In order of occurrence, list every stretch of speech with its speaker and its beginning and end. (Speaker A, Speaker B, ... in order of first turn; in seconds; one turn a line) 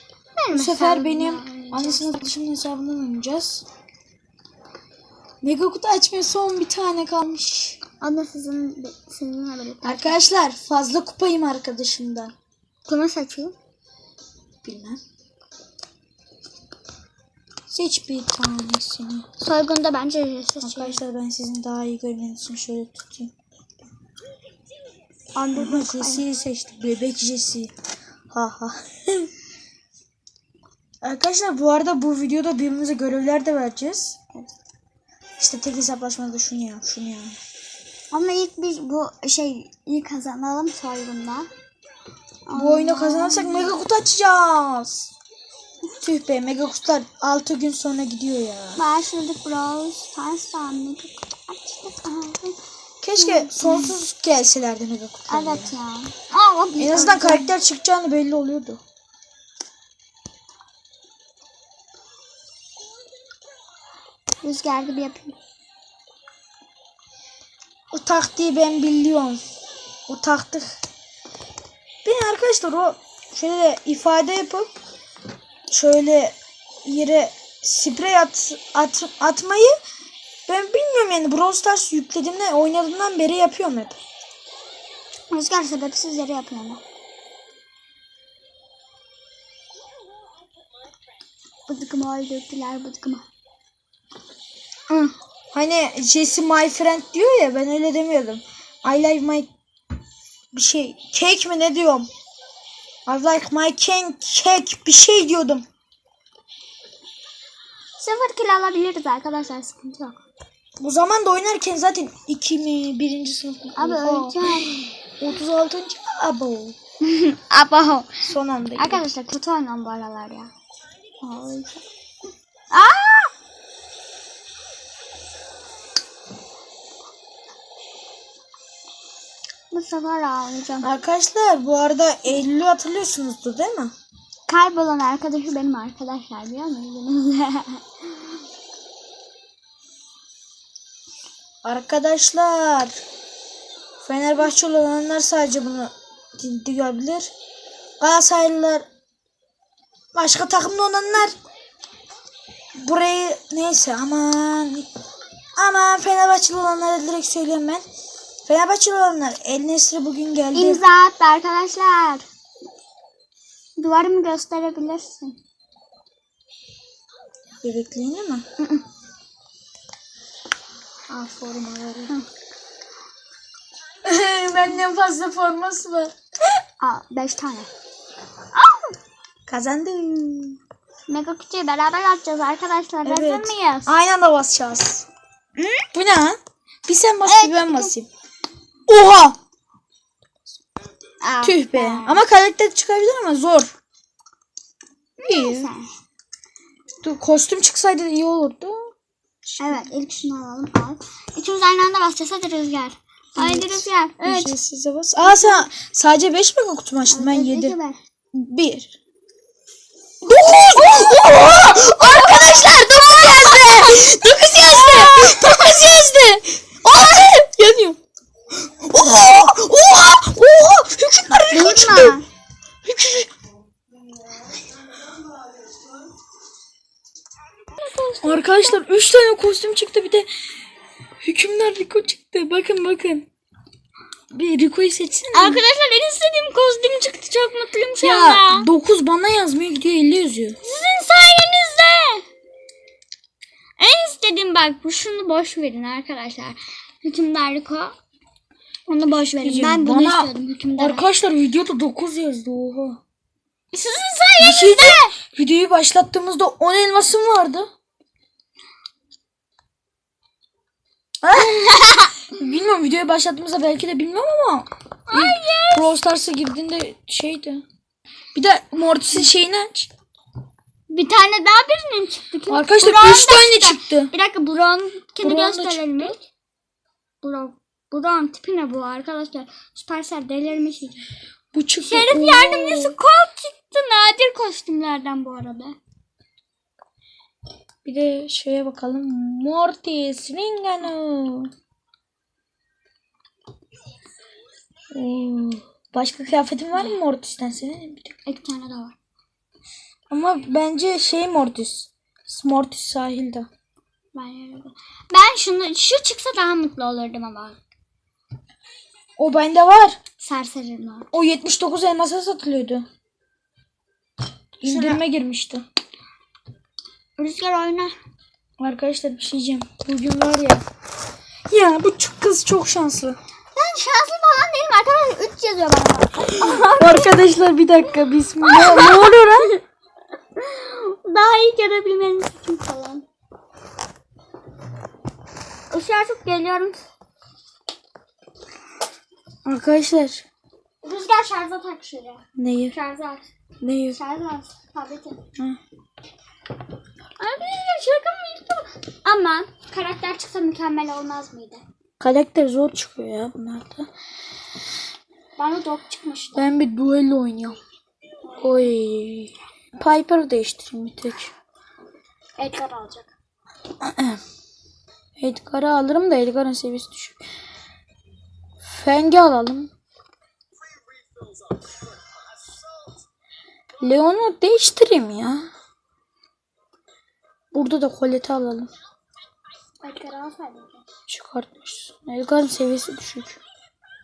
Speaker A: 0.4-2.2
Speaker B: 0.5-3.6
Speaker B: 5.4-7.8
Speaker A: 8.0-10.2
Speaker B: 9.8-12.3
Speaker A: 12.9-13.6
Speaker B: 14.6-15.0
Speaker B: 17.7-19.3
Speaker A: 19.4-21.0
Speaker B: 20.6-23.3
Speaker A: 25.3-26.2
Speaker B: 25.6-27.7
Speaker B: 28.3-29.3
Speaker B: 31.0-34.2
Speaker B: 35.4-37.4
Speaker A: 38.1-41.5
Speaker A: 42.5-43.8
Speaker B: 42.5-45.1
Speaker B: 46.0-48.8
Speaker A: 48.8-52.6
Speaker B: 53.0-55.7
Speaker A: 53.2-54.0
Speaker A: 55.3-57.5
Speaker B: 56.8-58.8
Speaker A: 64.4-65.4
Speaker B: 67.9-69.4
Speaker B: 70.1-70.8
Speaker B: 72.0-74.7
Speaker B: 75.7-79.8
Speaker B: 80.5-84.0
Speaker A: 85.3-86.8
Speaker A: 91.7-93.3
Speaker A: 94.9-95.1
Speaker B: 95.5-99.5
Speaker B: 100.5-102.1
Speaker B: 103.1-105.7
Speaker A: 108.0-110.2
Speaker B: 110.8-116.8
Speaker A: 113.8-114.8
Speaker A: 117.0-120.5
Speaker B: 118.2-119.0
Speaker A: 121.2-121.8
Speaker A: 122.7-123.3
Speaker A: 129.7-130.9
Speaker B: 130.8-133.9
Speaker A: 134.5-138.1
Speaker B: 141.6-142.9
Speaker B: 144.0-147.3
Speaker B: 148.0-148.8
Speaker B: 150.1-151.4
Speaker B: 152.8-154.9
Speaker B: 155.6-157.8
Speaker B: 158.5-160.8
Speaker A: 160.5-162.3
Speaker A: 163.8-165.4
Speaker B: 167.6-168.4
Speaker A: 168.6-168.8
Speaker B: 171.2-172.1
Speaker A: 171.3-172.3
Speaker B: 174.0-176.1
Speaker A: 176.8-177.7
Speaker A: 178.5-179.0
Speaker B: 179.5-180.6
Speaker A: 181.1-183.9
Speaker B: 183.0-185.1
Speaker A: 185.6-185.9
Speaker B: 185.9-188.1
Speaker A: 187.3-187.9
Speaker B: 188.9-189.4
Speaker A: 191.2-192.2
Speaker B: 191.4-193.7
Speaker A: 195.2-195.9
Speaker B: 195.3-195.7
Speaker B: 197.0-198.9
Speaker B: 199.5-199.8
Speaker A: 199.6-204.6
Speaker B: 203.3-207.8
Speaker A: 205.2-205.6
Speaker A: 207.1-208.0
Speaker B: 208.3-209.0
Speaker B: 210.2-218.0
Speaker A: 210.8-215.7
Speaker B: 218.8-222.2
Speaker A: 221.5-222.3
Speaker B: 222.8-223.3
Speaker A: 227.8-228.8
Speaker B: 228.2-230.3
Speaker B: 231.2-233.3
Speaker B: 234.3-235.6
Speaker A: 235.3-238.7
Speaker B: 238.0-240.6
Speaker A: 240.6-242.3
Speaker A: 243.8-248.0
Speaker A: 248.9-251.1
Speaker B: 249.3-253.0
Speaker A: 253.7-255.2
Speaker B: 254.4-257.7
Speaker B: 261.2-261.6
Speaker A: 261.4-262.2
Speaker B: 262.3-267.6
Speaker A: 265.1-265.9
Speaker B: 268.3-269.9
Speaker A: 270.9-276.2
Speaker B: 272.5-274.1
Speaker B: 275.2-276.1
Speaker A: 277.2-281.1
Speaker B: 281.5-282.9
Speaker A: 281.8-285.8
Speaker B: 287.8-291.5
Speaker B: 294.9-298.1
Speaker A: 298.3-298.9
Speaker B: 300.1-303.5
Speaker A: 304.1-307.6
Speaker B: 309.2-310.0
Speaker A: 310.2-311.1
Speaker B: 311.1-312.9
Speaker B: 314.6-315.7
Speaker A: 314.7-315.0
Speaker A: 317.2-318.0
Speaker B: 318.6-320.6
Speaker B: 321.5-323.2
Speaker A: 323.6-327.2
Speaker B: 326.6-329.5
Speaker A: 328.4-329.6
Speaker A: 330.4-333.1
Speaker A: 335.7-336.8
Speaker B: 339.4-340.2
Speaker A: 340.8-343.3
Speaker B: 342.4-342.8
Speaker B: 343.6-344.0
Speaker A: 343.9-345.2
Speaker A: 347.2-351.6
Speaker B: 352.0-353.9
Speaker A: 355.4-356.5
Speaker B: 356.4-357.6
Speaker A: 358.2-358.7
Speaker B: 358.4-361.3
Speaker A: 362.4-363.1
Speaker B: 363.8-364.2
Speaker B: 365.2-367.2
Speaker B: 368.6-369.7
Speaker B: 373.8-375.5
Speaker B: 377.5-378.7
Speaker A: 379.8-380.9
Speaker B: 381.1-383.4